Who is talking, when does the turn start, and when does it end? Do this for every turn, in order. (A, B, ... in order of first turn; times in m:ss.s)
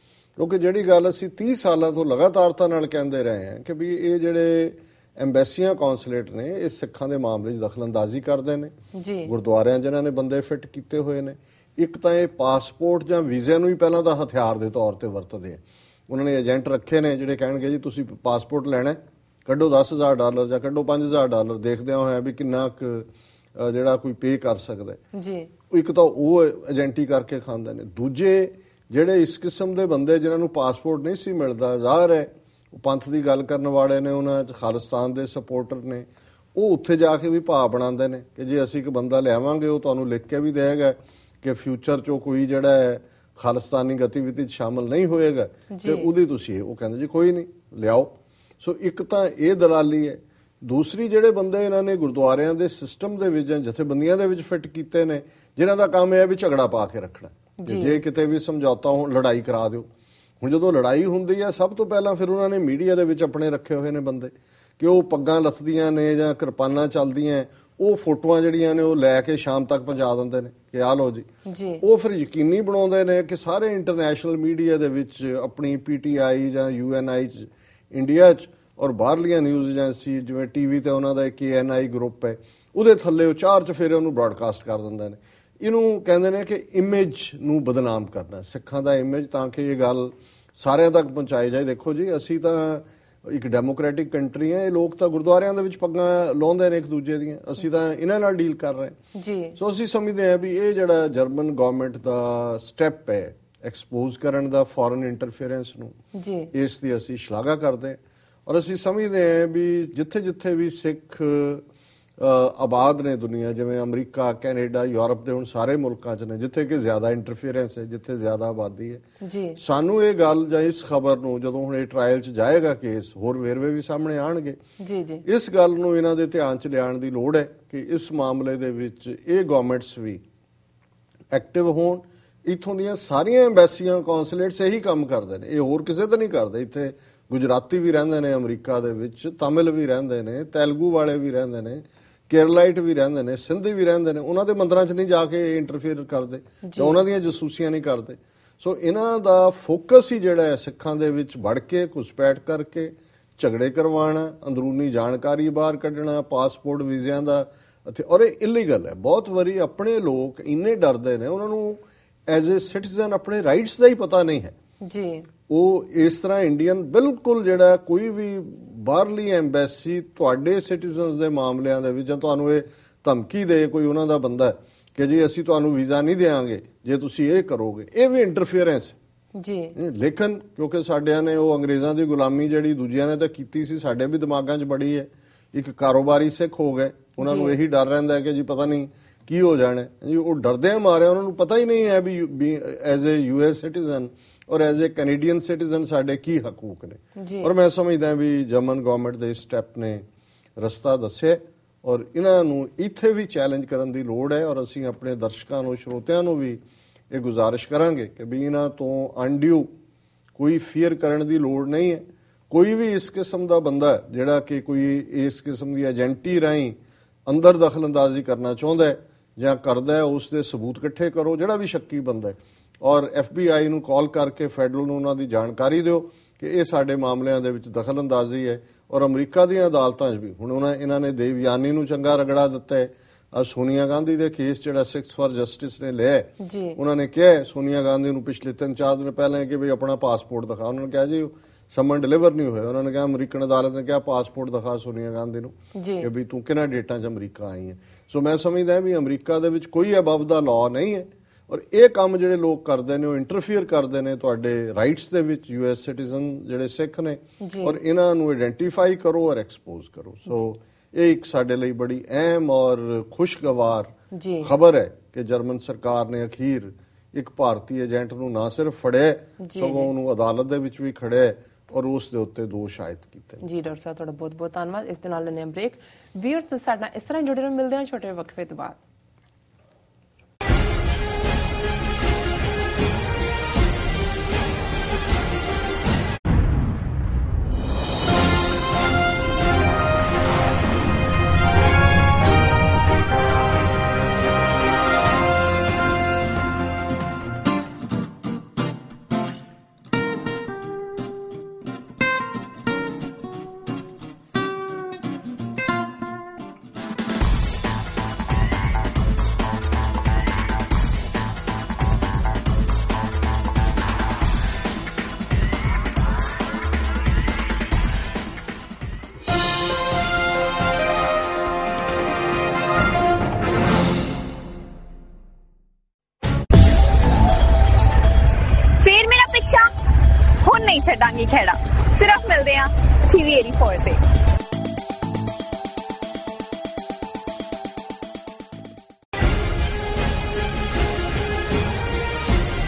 0:00.4-0:08.7 A
0:08.9-0:09.3 B
0:09.3-0:25.0 A
0:25.1-0:25.5 B
0:25.7-0:59.9 A
0:45.7-0:46.1 B
0:57.6-0:58.0 B
1:00.4-1:11.3 A
1:11.5-1:11.8 B
1:11.8-1:39.0 A
1:39.1-1:39.6 B
1:39.6-1:46.0 A
1:46.1-1:46.5 B
1:46.5-1:51.7 A
1:52.2-1:59.0 A
1:59.2-1:59.6 B
1:59.6-2:04.6 A
2:04.8-2:05.2 B
2:05.2-2:10.2 A
2:11.3-2:44.5 A
2:26.6-2:27.0 B
2:44.8-2:45.3 B
2:45.5-2:59.0 A
2:59.4-2:59.8 B
2:59.8-3:20.0 A
3:07.2-3:07.6 B
3:17.2-3:17.5 B
3:20.6-3:29.7 A
3:30.4-4:33.4 A
3:56.4-3:56.8 B
4:05.8-4:06.1 B
4:17.4-4:17.8 B
4:24.1-4:24.5 B
4:29.4-4:29.9 B
4:33.4-4:38.8 B
5:28.8-5:29.7 C
5:30.4-5:34.0 C